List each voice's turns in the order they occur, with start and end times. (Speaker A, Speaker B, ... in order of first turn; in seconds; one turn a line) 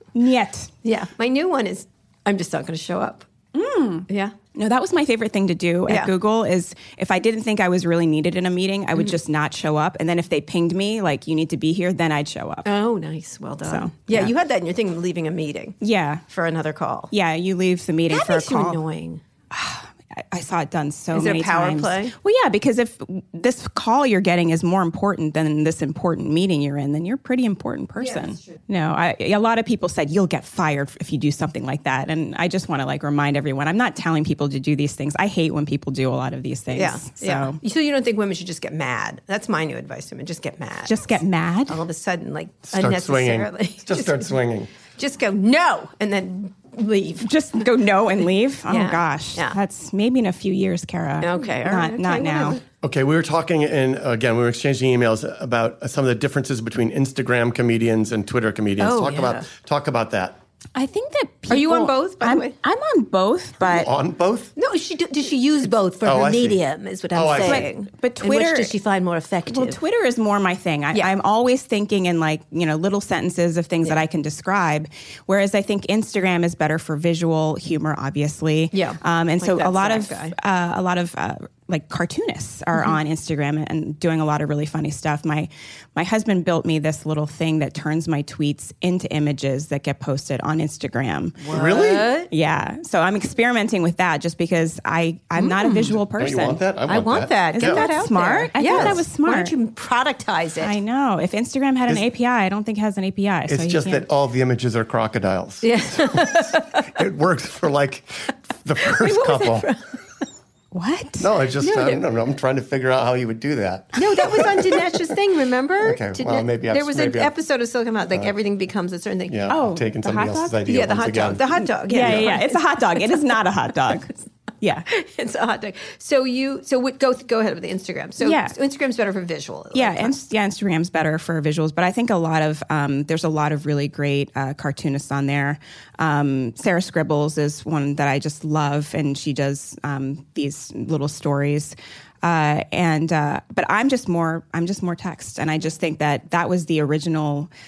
Speaker A: 0.1-0.7
Speaker B: 0.8-3.3
Speaker A: 3.5-12.7
Speaker B: 4.1-4.3
Speaker B: 12.7-17.1
Speaker A: 13.7-14.3
Speaker A: 15.8-16.2
Speaker A: 17.1-18.8
Speaker B: 18.1-19.2
Speaker A: 19.5-37.6
Speaker B: 21.1-22.1
Speaker B: 36.7-41.1
Speaker A: 40.9-41.8
Speaker B: 41.7-44.3
Speaker C: 42.7-44.7
Speaker B: 44.9-47.3
Speaker A: 47.2-52.6
Speaker B: 48.7-49.6
Speaker B: 51.2-52.6
Speaker C: 52.8-60.4
Speaker B: 58.8-59.5
Speaker A: 60.8-63.9
Speaker B: 61.5-62.5
Speaker C: 63.6-64.5
Speaker B: 64.6-69.8
Speaker C: 66.0-66.6
Speaker C: 67.1-67.7
Speaker A: 67.4-68.7
Speaker A: 69.5-91.5
Speaker B: 78.7-80.3
Speaker B: 91.4-92.3
Speaker C: 91.5-92.1
Speaker A: 92.3-96.6
Speaker B: 95.4-96.0
Speaker C: 96.2-97.9
Speaker B: 96.9-100.7
Speaker A: 97.5-99.5
Speaker C: 98.6-99.0
Speaker A: 100.6-104.1
Speaker C: 103.5-109.7
Speaker B: 105.6-106.9
Speaker B: 108.8-110.0
Speaker A: 110.7-111.3
Speaker C: 111.2-114.9
Speaker B: 111.6-112.0
Speaker B: 114.0-119.4
Speaker C: 115.8-117.3
Speaker C: 119.3-122.3
Speaker A: 119.5-120.6
Speaker B: 120.7-123.1
Speaker A: 121.9-124.9
Speaker B: 124.9-130.2
Speaker A: 128.2-128.6
Speaker A: 129.7-147.5